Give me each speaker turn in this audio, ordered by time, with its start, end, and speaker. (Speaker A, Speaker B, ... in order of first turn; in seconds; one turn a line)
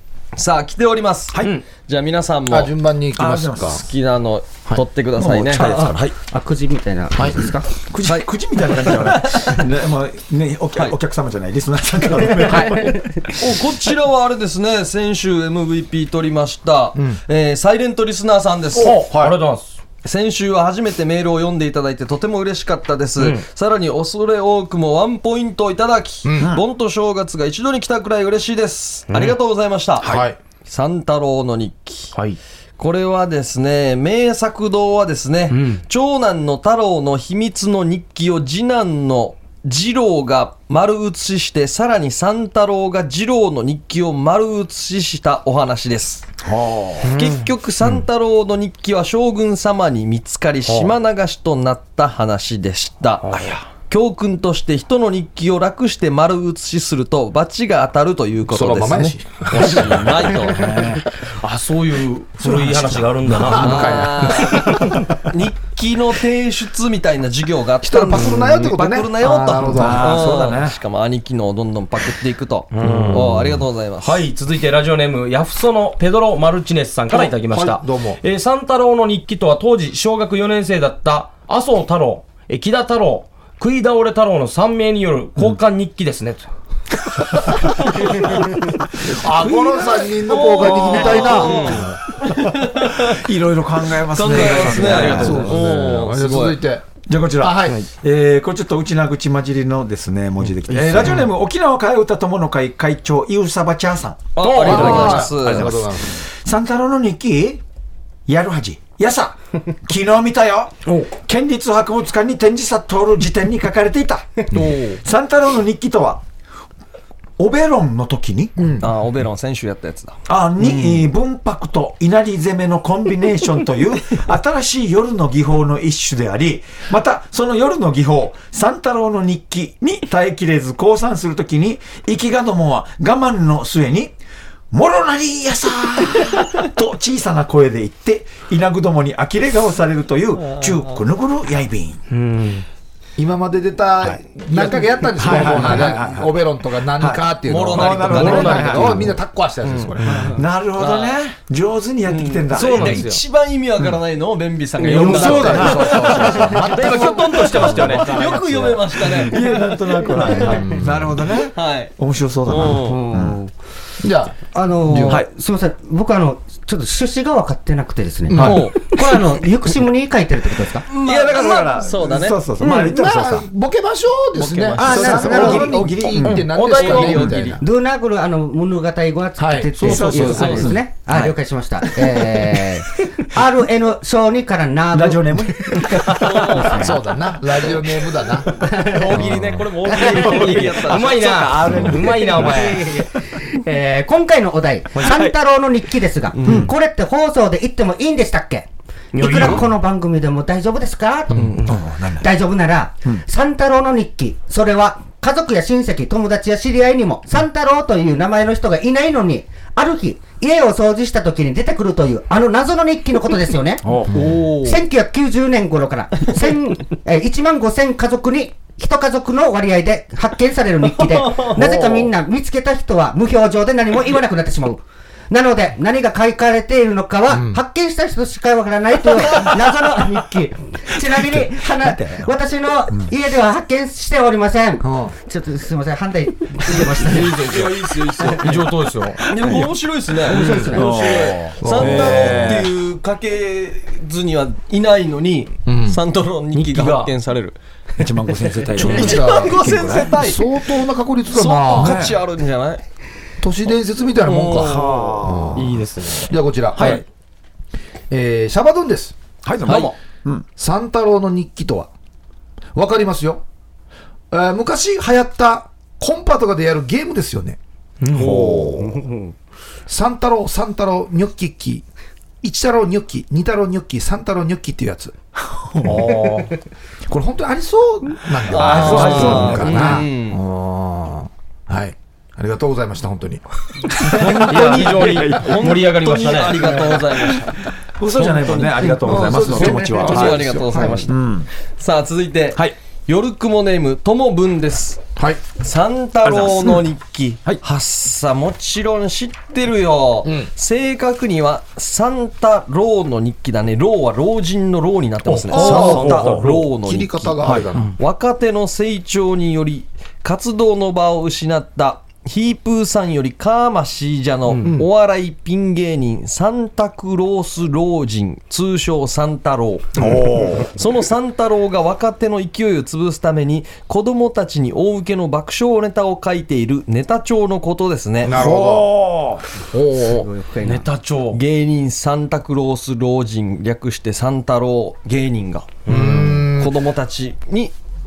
Speaker A: 0.3-2.7
Speaker B: 2.5-3.8
Speaker C: 3.2-3.8
Speaker A: 3.7-5.7
Speaker C: 5.2-6.2
Speaker D: 5.5-7.8
Speaker B: 7.2-7.4
Speaker C: 7.9-13.0
Speaker A: 8.1-9.6
Speaker D: 12.7-13.3
Speaker A: 13.3-19.0
Speaker B: 16.9-17.2
Speaker B: 18.8-19.4
Speaker E: 19.2-19.8
Speaker A: 20.0-32.1
Speaker E: 23.2-23.4
Speaker B: 26.2-26.5
Speaker C: 26.4-26.6
Speaker E: 29.1-29.4
Speaker C: 30.0-30.3
Speaker B: 30.0-30.4
Speaker A: 32.8-46.3
Speaker E: 35.5-35.8
Speaker C: 46.4-47.1
Speaker A: 47.0-53.2
Speaker E: 47.0-47.5
Speaker E: 53.2-53.5
Speaker C: 53.3-53.7
Speaker A: 53.9-60.6
Speaker B: 58.5-60.8
Speaker C: 60.3-61.1
Speaker E: 61.4-65.1
Speaker C: 62.4-63.4
Speaker B: 63.3-64.8
Speaker A: 63.5-74.2
Speaker B: 67.8-70.0
Speaker C: 69.7-70.8
Speaker E: 72.7-73.3
Speaker E: 74.0-86.5
Speaker B: 77.1-78.2
Speaker E: 88.0-88.4
Speaker B: 89.0-92.0
Speaker C: 89.4-89.9
Speaker A: 90.0-93.2
Speaker E: 91.0-91.7
Speaker C: 92.8-95.7
Speaker A: 94.1-96.6
Speaker B: 94.7-96.8
Speaker C: 97.1-107.6
Speaker B: 97.4-97.8
Speaker B: 100.8-101.2
Speaker A: 104.4-105.8
Speaker E: 104.4-105.3
Speaker B: 104.5-106.2
Speaker C: 108.3-116.2
Speaker E: 110.9-111.1
Speaker A: 114.5-115.0
Speaker C: 117.4-118.8
Speaker B: 118.6-118.9
Speaker A: 118.8-120.2
Speaker C: 120.3-134.2
Speaker E: 120.6-121.0
Speaker C: 134.7-142.0
Speaker A: 140.5-140.9
Speaker E: 142.1-142.7
Speaker B: 143.2-150.4
Speaker C: 145.2-149.1
Speaker A: 147.5-148.9
Speaker E: 147.9-149.1
Speaker A: 149.6-149.9
Speaker C: 150.1-153.2
Speaker A: 150.8-151.2
Speaker A: 152.1-157.0
Speaker E: 152.5-153.2
Speaker E: 154.8-158.5
Speaker B: 154.9-158.8
Speaker C: 155.0-156.5
Speaker A: 157.5-160.6
Speaker C: 159.1-163.4
Speaker B: 160.4-161.1
Speaker A: 161.5-161.9
Speaker A: 162.5-163.0
Speaker D: 162.8-163.5
Speaker B: 164.0-165.2
Speaker D: 164.5-170.9
Speaker C: 164.9-165.3
Speaker B: 168.3-168.7
Speaker C: 168.3-168.6
Speaker A: 168.4-168.8
Speaker A: 170.9-172.4
Speaker C: 171.0-173.5
Speaker B: 172.6-177.6
Speaker E: 174.4-174.8
Speaker C: 174.8-177.4
Speaker D: 174.8-175.9
Speaker E: 176.2-177.6
Speaker A: 176.7-177.6
Speaker D: 177.6-187.0
Speaker B: 179.4-180.3
Speaker C: 179.8-181.4
Speaker E: 179.9-180.7
Speaker A: 180.2-180.8
Speaker C: 184.9-186.7
Speaker A: 186.2-186.9
Speaker B: 186.8-188.5
Speaker D: 188.6-190.7
Speaker A: 188.7-191.9
Speaker E: 189.9-192.9
Speaker C: 191.2-193.2
Speaker D: 192.3-213.9
Speaker E: 194.9-195.2
Speaker C: 195.0-195.4
Speaker A: 196.3-196.7
Speaker C: 196.4-196.7
Speaker E: 199.1-199.7
Speaker E: 201.4-201.7
Speaker C: 201.6-202.3
Speaker A: 214.1-214.8
Speaker D: 214.6-237.7
Speaker A: 220.9-222.1
Speaker B: 227.3-227.6
Speaker C: 231.0-232.3
Speaker B: 234.8-235.1
Speaker A: 236.7-238.6
Speaker E: 237.1-237.6
Speaker E: 238.4-239.2
Speaker A: 239.3-247.6
Speaker D: 240.2-241.2
Speaker E: 240.3-240.7
Speaker C: 240.5-242.7
Speaker B: 241.6-242.5
Speaker B: 245.7-246.0
Speaker E: 246.5-247.1
Speaker C: 248.0-250.2
Speaker B: 248.8-249.6
Speaker A: 248.8-250.7
Speaker B: 250.2-252.0
Speaker A: 251.3-252.8
Speaker C: 251.7-252.2
Speaker B: 253.4-257.0
Speaker A: 254.2-255.1
Speaker C: 254.6-255.7
Speaker E: 255.6-256.3
Speaker C: 256.8-257.0
Speaker B: 258.1-259.1
Speaker C: 259.4-260.5
Speaker A: 259.7-259.9
Speaker B: 260.6-261.9
Speaker B: 262.8-263.4
Speaker B: 264.3-267.6
Speaker E: 268.0-268.7
Speaker C: 268.1-269.0
Speaker D: 268.8-269.3
Speaker B: 269.9-271.9
Speaker B: 272.4-275.1
Speaker C: 275.4-276.2
Speaker E: 275.8-276.5
Speaker B: 277.1-283.4
Speaker C: 278.5-279.9
Speaker A: 278.5-280.4
Speaker E: 278.9-279.5
Speaker A: 284.0-287.6
Speaker C: 284.1-285.8
Speaker E: 284.1-287.0
Speaker C: 286.6-287.3
Speaker C: 287.9-291.5
Speaker A: 288.1-291.2
Speaker B: 289.0-291.1
Speaker A: 291.8-295.0
Speaker A: 295.6-307.4
Speaker C: 296.2-296.8
Speaker E: 305.3-306.5
Speaker B: 305.5-307.9
Speaker C: 305.5-306.6
Speaker C: 307.4-307.7
Speaker A: 308.0-328.4
Speaker C: 320.0-320.7
Speaker B: 328.2-328.9
Speaker C: 328.3-329.4
Speaker B: 329.7-330.2
Speaker D: 330.0-330.9
Speaker E: 330.6-331.4
Speaker A: 331.3-335.8
Speaker E: 335.9-336.5
Speaker B: 335.9-336.8
Speaker A: 336.6-337.7